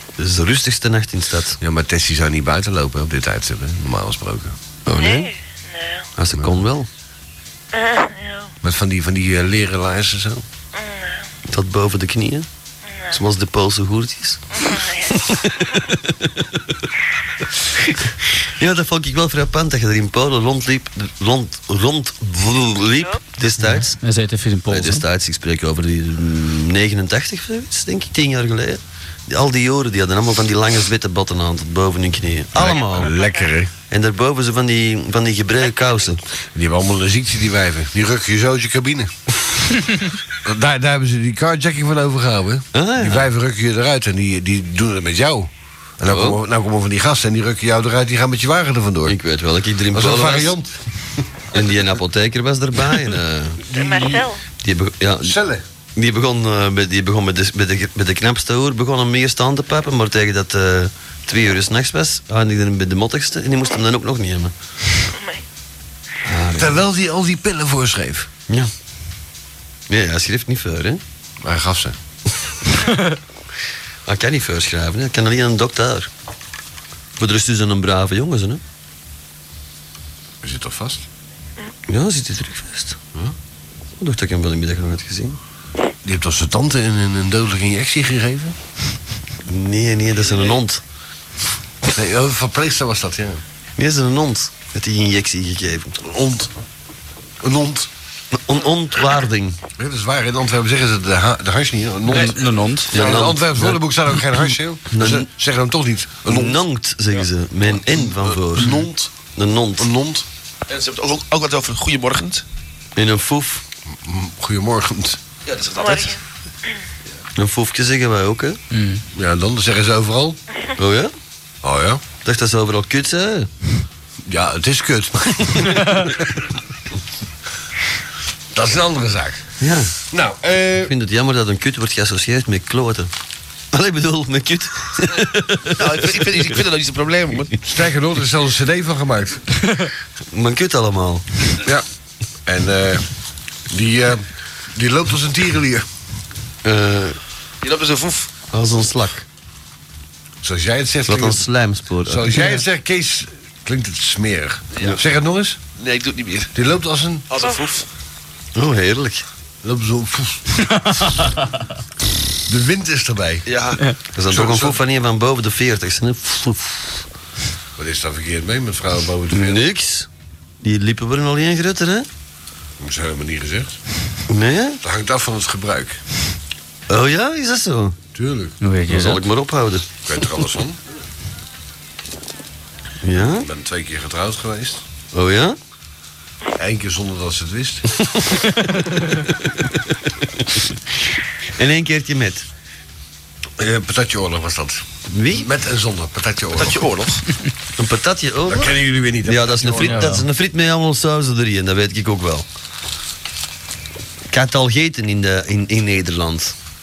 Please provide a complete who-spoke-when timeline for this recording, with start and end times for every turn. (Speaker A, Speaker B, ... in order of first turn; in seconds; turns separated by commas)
Speaker A: 0.2-1.6, Speaker B: 1.6-4.6, Speaker A: 4.9-5.3, Speaker C: 5.0-6.1, Speaker A: 6.2-6.9, Speaker B: 6.3-6.6, Speaker C: 7.7-8.5, Speaker B: 8.6-10.4, Speaker C: 10.7-11.3, Speaker A: 11.5-12.5, Speaker C: 12.8-13.2, Speaker A: 13.1-14.6, Speaker C: 14.5-15.8, Speaker A: 15.2-16.3, Speaker A: 18.3-24.0, Speaker D: 23.6-25.0, Speaker A: 24.7-33.1, Speaker B: 32.5-33.7, Speaker C: 32.6-33.5, Speaker A: 33.9-36.2, Speaker B: 36.5-39.1, Speaker B: 40.4-49.2, Speaker A: 42.7-43.3, Speaker A: 46.0-46.4, Speaker A: 49.1-50.5, Speaker B: 49.9-50.8, Speaker A: 51.5-53.7, Speaker B: 53.7-54.2, Speaker C: 53.7-54.4, Speaker A: 54.6-55.4, Speaker B: 55.2-55.6, Speaker A: 56.0-64.5, Speaker C: 65.1-65.4, Speaker A: 66.2-66.8, Speaker B: 66.6-68.3, Speaker A: 69.9-71.0, Speaker B: 71.4-72.0, Speaker D: 72.9-73.2, Speaker A: 74.1-76.1, Speaker A: 77.2-78.6, Speaker B: 80.4-81.0, Speaker A: 81.9-83.0, Speaker A: 84.0-85.4, Speaker B: 86.0-88.6, Speaker A: 89.5-90.8, Speaker B: 91.9-93.4, Speaker A: 93.8-96.0, Speaker B: 96.0-96.5, Speaker B: 97.4-97.9, Speaker A: 98.3-99.6, Speaker B: 99.8-106.6, Speaker D: 102.1-103.8, Speaker A: 102.9-103.4, Speaker A: 104.9-105.3, Speaker A: 106.3-109.9, Speaker B: 108.0-109.2, Speaker B: 109.8-110.3, Speaker E: 110.7-112.4, Speaker A: 113.0-113.6, Speaker B: 113.9-115.2, Speaker E: 115.5-116.2, Speaker C: 115.8-116.2, Speaker A: 117.4-118.6, Speaker D: 118.7-119.0, Speaker B: 119.2-120.4, Speaker A: 120.8-121.1, Speaker B: 121.6-122.0, Speaker A: 122.2-123.5, Speaker B: 124.3-126.2, Speaker B: 128.5-129.5, Speaker A: 129.6-130.0, Speaker B: 130.1-130.9, Speaker A: 130.8-133.1, Speaker A: 133.7-136.2, Speaker E: 135.7-137.5, Speaker B: 137.6-139.4, Speaker A: 140.3-141.5, Speaker B: 142.5-143.1, Speaker B: 143.7-145.8, Speaker A: 146.6-147.2, Speaker E: 147.6-148.3, Speaker A: 148.5-149.2, Speaker B: 150.4-151.4, Speaker A: 151.1-152.3, Speaker B: 152.1-155.6, Speaker E: 154.7-155.0, Speaker E: 155.8-156.5, Speaker B: 156.5-157.3, Speaker E: 157.3-157.9, Speaker A: 158.6-159.3, Speaker B: 159.6-160.5, Speaker D: 160.9-161.4, Speaker B: 162.5-163.5, Speaker E: 163.5-163.8, Speaker A: 164.1-167.1, Speaker B: 164.3-164.7, Speaker B: 167.8-169.6, Speaker A: 169.3-170.1, Speaker A: 170.6-172.1, Speaker B: 172.8-173.8, Speaker A: 174.3-174.8, Speaker B: 174.8-176.0, Speaker A: 176.9-178.0, Speaker B: 178.2-178.6, Speaker D: 178.6-179.2, Speaker A: 178.9-179.9, Speaker B: 180.1-180.8, Speaker A: 183.0-183.5, Speaker B: 183.2-184.8, Speaker A: 185.1-185.6, Speaker B: 186.6-187.8, Speaker A: 191.6-192.5, Speaker B: 193.6-196.9, Speaker A: 195.1-195.5, Speaker E: 196.5-197.2, Speaker A: 197.8-202.5, Speaker B: 198.5-200.2, Speaker D: 199.8-200.2, Speaker A: 204.3-206.6